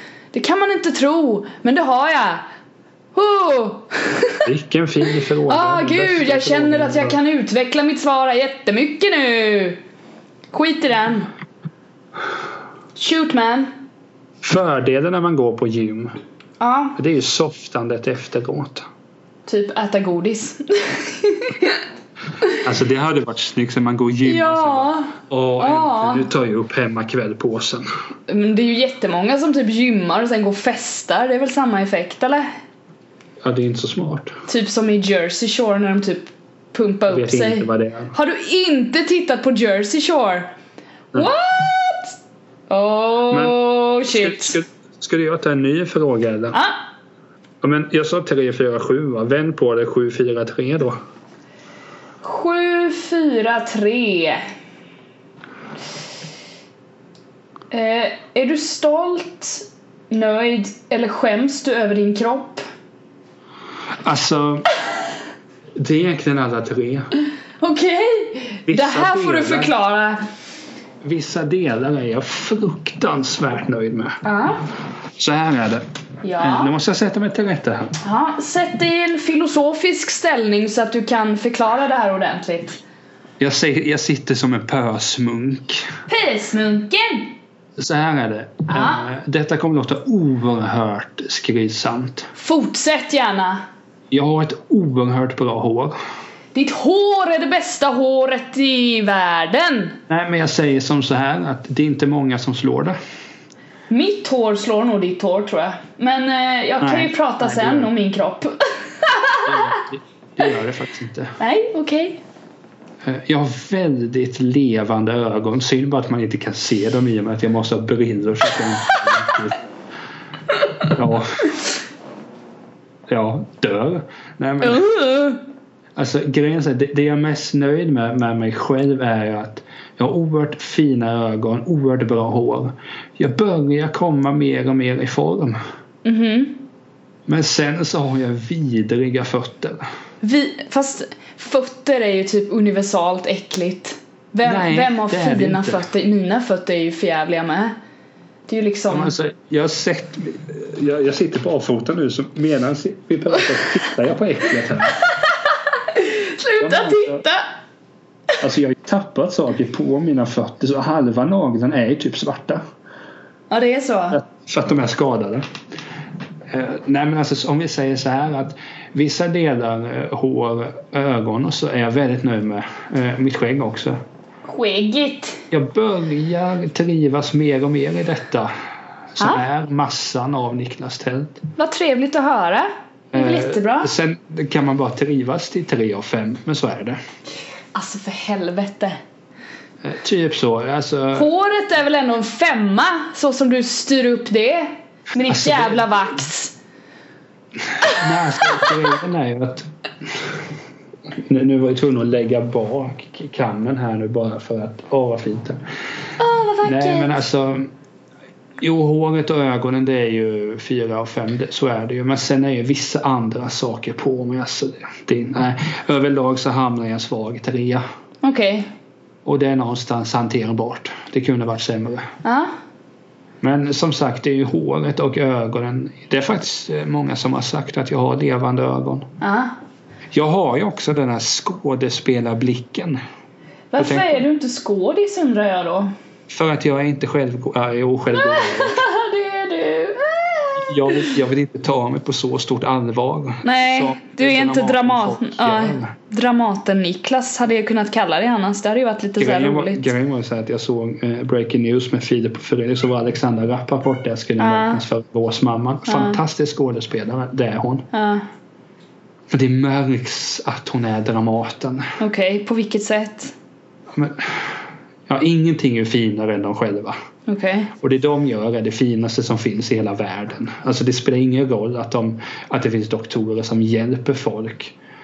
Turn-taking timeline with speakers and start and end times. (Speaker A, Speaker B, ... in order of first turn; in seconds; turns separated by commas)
Speaker A: 0.3-2.4, Speaker A: 3.1-4.5, Speaker B: 4.4-7.2, Speaker A: 5.5-9.8, Speaker A: 10.5-11.3, Speaker A: 12.9-13.7, Speaker B: 14.4-16.1, Speaker A: 16.6-17.0, Speaker B: 16.9-18.9, Speaker A: 19.5-21.8, Speaker B: 22.6-27.8, Speaker A: 24.2-26.3, Speaker A: 28.3-32.5, Speaker B: 33.4-34.3, Speaker A: 34.5-40.5, Speaker B: 37.1-38.1, Speaker A: 41.1-42.1, Speaker A: 42.7-44.6, Speaker B: 43.3-46.6, Speaker B: 47.6-51.0, Speaker A: 52.2-54.4, Speaker A: 57.7-62.6, Speaker B: 64.0-64.7, Speaker B: 65.8-67.1, Speaker A: 67.6-70.2, Speaker B: 68.7-69.7, Speaker B: 71.0-74.2, Speaker A: 74.2-74.6, Speaker B: 75.2-75.8, Speaker A: 76.2-76.7, Speaker B: 76.4-78.0, Speaker A: 78.0-82.8, Speaker B: 83.4-85.9, Speaker A: 86.1-87.3, Speaker B: 87.8-92.3, Speaker A: 88.7-89.1, Speaker A: 92.3-93.6, Speaker B: 94.1-96.0, Speaker A: 96.5-100.0, Speaker B: 100.1-103.0, Speaker A: 103.9-109.8, Speaker B: 106.8-107.9, Speaker B: 109.5-111.3, Speaker A: 111.4-112.2, Speaker B: 113.0-119.6, Speaker B: 120.9-121.5, Speaker B: 123.1-124.9, Speaker A: 124.6-125.4, Speaker B: 126.0-135.6, Speaker A: 136.0-136.6, Speaker B: 137.3-139.8, Speaker A: 140.2-147.8, Speaker B: 144.4-145.8, Speaker A: 148.5-149.1, Speaker B: 148.9-155.0, Speaker A: 155.9-157.5, Speaker B: 156.6-157.2, Speaker B: 158.4-162.6, Speaker A: 163.5-164.2, Speaker B: 164.1-165.4, Speaker B: 166.5-174.0, Speaker A: 174.4-175.4, Speaker B: 175.5-178.5, Speaker B: 179.1-181.4, Speaker A: 181.6-183.9, Speaker B: 183.1-187.0, Speaker A: 187.7-189.0, Speaker B: 189.8-191.3, Speaker A: 191.1-196.5, Speaker B: 195.3-195.8, Speaker B: 197.6-200.4, Speaker B: 201.1-205.6, Speaker A: 206.2-207.2, Speaker B: 206.6-207.7, Speaker B: 208.6-217.8, Speaker A: 218.2-218.7, Speaker B: 219.2-222.0, Speaker A: 222.2-222.5, Speaker B: 223.4-229.1, Speaker A: 229.2-229.5, Speaker B: 230.1-233.0, Speaker A: 233.7-235.9, Speaker B: 233.8-234.2, Speaker B: 236.3-238.8, Speaker A: 238.1-241.2, Speaker B: 240.6-245.9, Speaker A: 243.4-249.9, Speaker B: 249.2-257.9, Speaker A: 254.4-254.8, Speaker A: 255.9-256.2, Speaker A: 257.9-258.2, Speaker B: 259.3-261.9, Speaker A: 262.0-263.3, Speaker B: 263.9-266.9, Speaker A: 267.3-267.7, Speaker B: 267.8-274.7